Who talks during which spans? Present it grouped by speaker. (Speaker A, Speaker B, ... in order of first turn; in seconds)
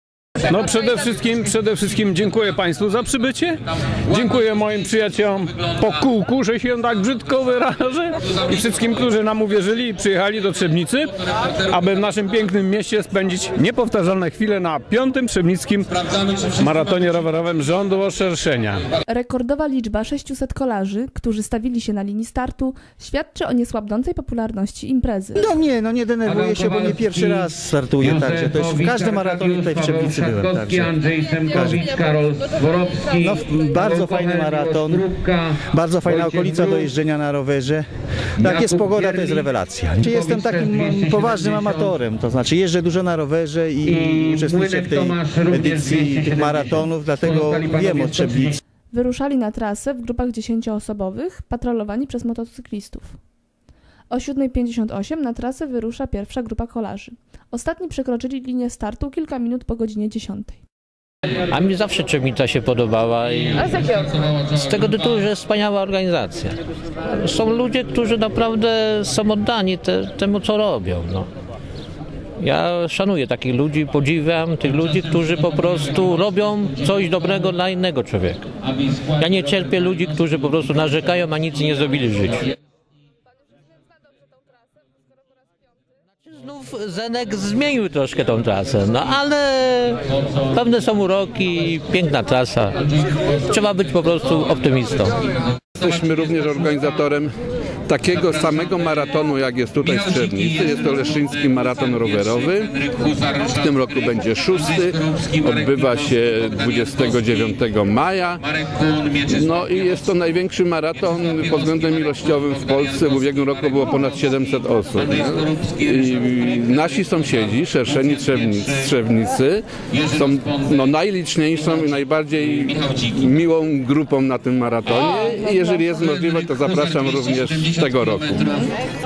Speaker A: 0.5-18.8
Speaker B: 19.1-25.5, 48.9-53.2, 54.1-60.6
Speaker C: 25.4-30.9, 31.5-31.9, 33.2-37.8, 38.4-48.6
Speaker D: 28.6-29.5, 30.6-33.2, 34.1-35.6, 40.4-40.7, 44.4-45.6, 103.0-103.4
Speaker E: 61.5-71.3, 72.4-82.5, 86.2-95.2
Speaker F: 95.8-97.3, 97.9-102.8, 103.4-108.4, 109.1-128.7